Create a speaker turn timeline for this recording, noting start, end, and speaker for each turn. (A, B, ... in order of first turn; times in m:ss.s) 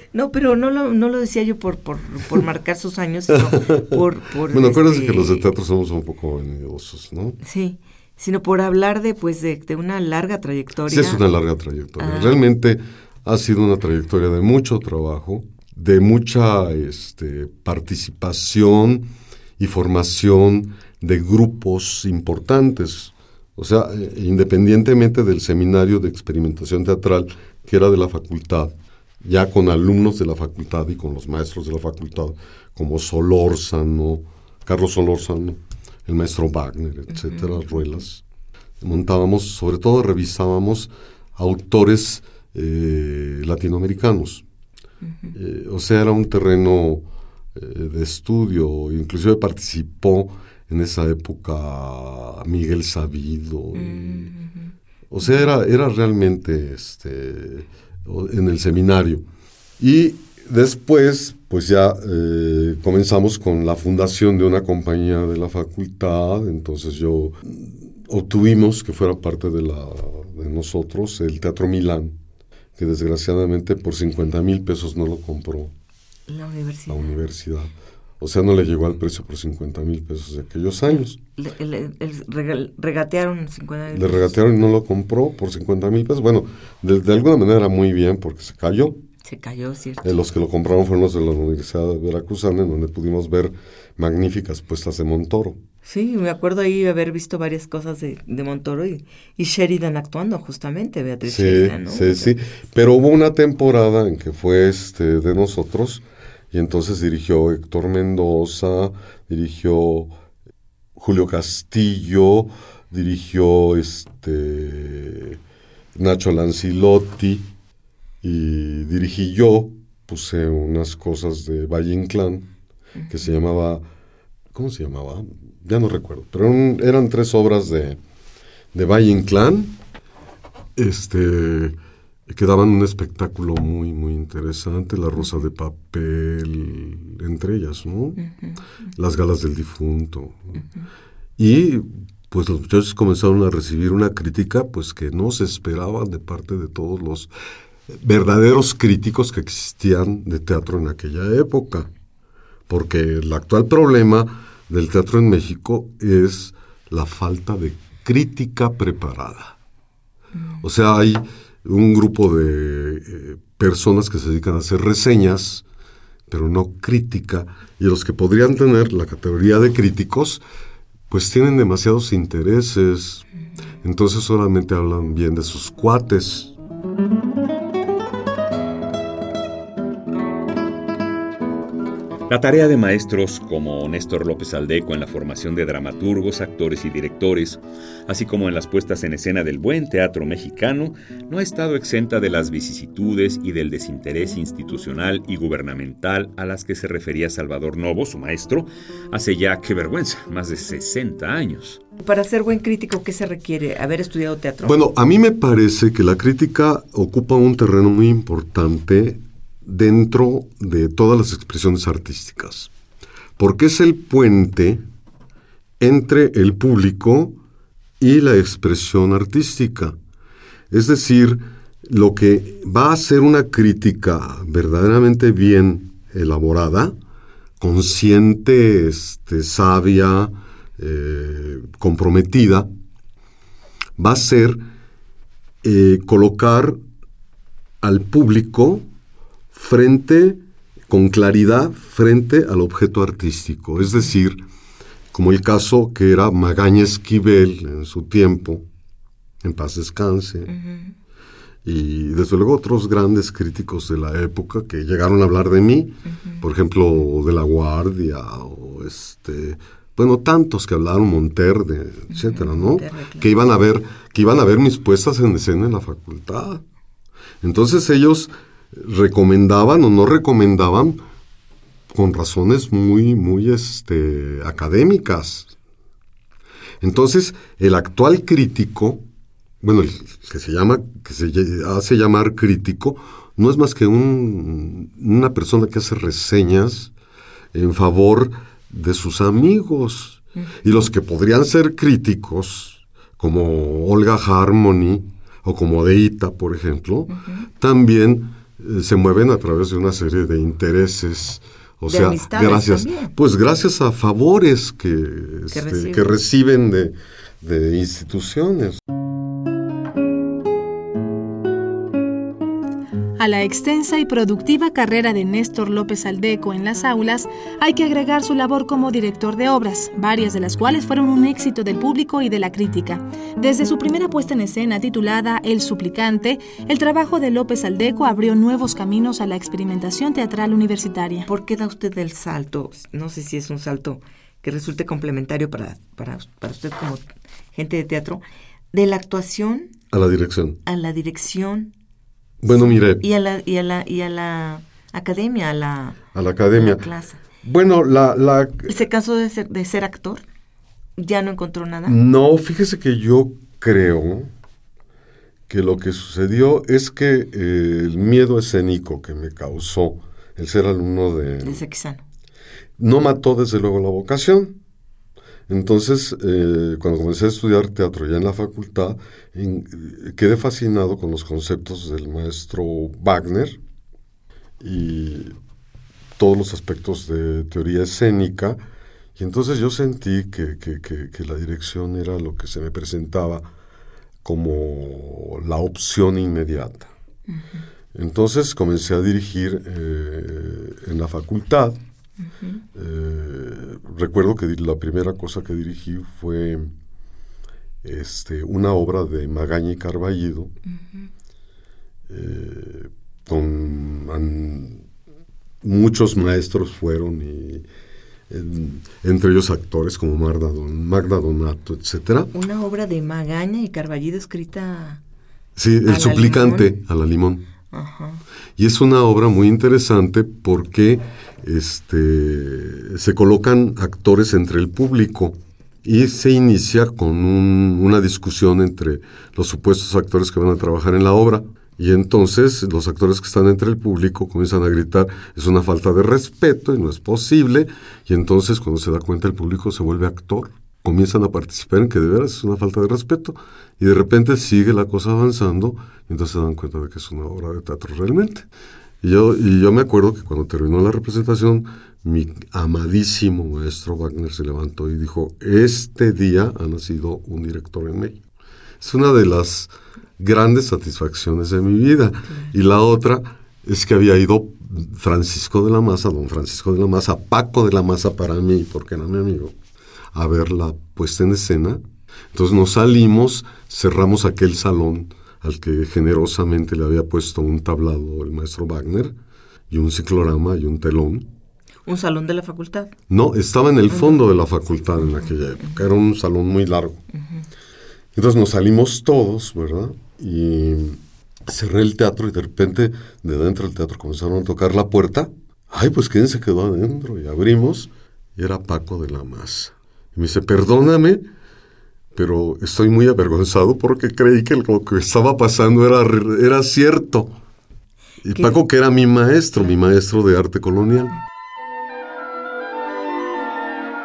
0:00.1-0:05.5 A
0:03.4-0:07.4 B
0:07.4-0:11.2 A
0:10.9-0:38.2 B
0:12.0-0:12.4 A
0:37.2-0:37.5 A
0:38.8-0:44.4 B
0:45.0-0:45.4 A
0:45.3-0:54.3 B
0:53.8-0:54.7 A
0:55.1-0:59.2 B
0:59.8-1:12.2 B
1:12.8-1:15.7 B
1:16.3-1:17.0 A
1:16.9-1:21.2 B
1:21.4-1:24.3 A
1:23.9-1:29.0 B
1:29.2-1:30.1 A
1:30.0-1:35.6 B
1:35.8-1:42.3 A
1:41.2-1:50.1 B
1:51.0-1:55.4 B
1:56.0-1:57.5 B
1:58.2-2:02.5 B
2:03.1-2:03.8 B
2:04.5-2:08.0 B
2:08.7-2:09.8 B
2:10.8-2:18.2 B
2:18.2-2:18.6 A
2:19.0-2:20.6 B
2:21.4-2:27.3 B
2:27.9-2:31.9 B
2:32.7-2:39.6 B
2:40.4-2:40.6 A
2:40.6-2:45.6 B
2:46.3-2:50.4 B
2:51.1-2:53.2 B
2:53.8-2:56.6 B
3:02.3-3:21.8 C
3:22.0-3:24.8 A
3:24.6-3:32.7 B
3:33.4-3:34.8 B
3:35.8-3:37.4 B
3:38.0-3:40.0 B
3:40.7-3:47.0 B
3:47.6-3:52.7 B
3:54.0-3:54.6 B
3:55.6-3:56.8 B
3:57.8-3:58.9 B
3:59.5-4:04.4 B
4:05.1-4:08.7 B
4:09.4-4:10.5 B
4:10.5-4:11.0 A
4:11.6-4:26.6 B
4:16.1-4:16.4 A
4:22.1-4:23.3 A
4:27.4-4:31.0 B
4:31.9-4:35.5 B
4:36.8-4:39.0 B
4:39.6-4:46.9 B
4:47.5-5:08.8 B
4:57.2-4:57.4 A
5:01.9-5:03.1 A
5:05.5-5:06.1 A
5:13.2-5:31.3 D
5:31.3-5:39.7 A
5:39.9-5:40.6 B
5:40.7-5:41.7 A
5:42.4-5:43.0 B
5:42.5-5:46.0 A
5:46.1-5:46.9 B
5:46.6-5:47.2 A
5:47.4-5:48.8 B
5:48.7-5:50.2 A
5:51.0-5:52.0 A
5:51.9-5:54.3 B
5:55.5-6:01.6 B
6:01.4-6:02.0 A
6:02.8-6:04.6 B
6:05.5-6:13.6 B
6:14.6-6:15.4 B
6:16.2-6:18.6 B
6:19.2-6:23.5 B
6:24.2-6:26.9 B
6:27.3-6:27.6 A
6:27.9-6:31.8 B
6:32.2-6:32.6 A
6:32.8-6:36.7 B
6:37.8-6:40.5 B
6:40.7-6:41.1 A
6:42.1-6:44.8 B
6:45.6-6:47.7 B
6:48.3-6:52.3 B
6:52.3-6:55.0 A
6:55.6-6:57.5 B
6:55.9-6:56.8 A
6:57.7-6:58.2 A
6:58.6-7:28.5 B
7:29.0-7:38.2 B
7:38.8-7:49.6 B
7:50.1-7:59.2 B
7:59.7-8:01.3 B
8:01.8-8:02.9 A
8:03.1-8:07.0 B
8:03.9-8:04.2 A
8:08.2-8:21.3 B
8:22.1-8:27.4 B
8:28.2-8:31.2 B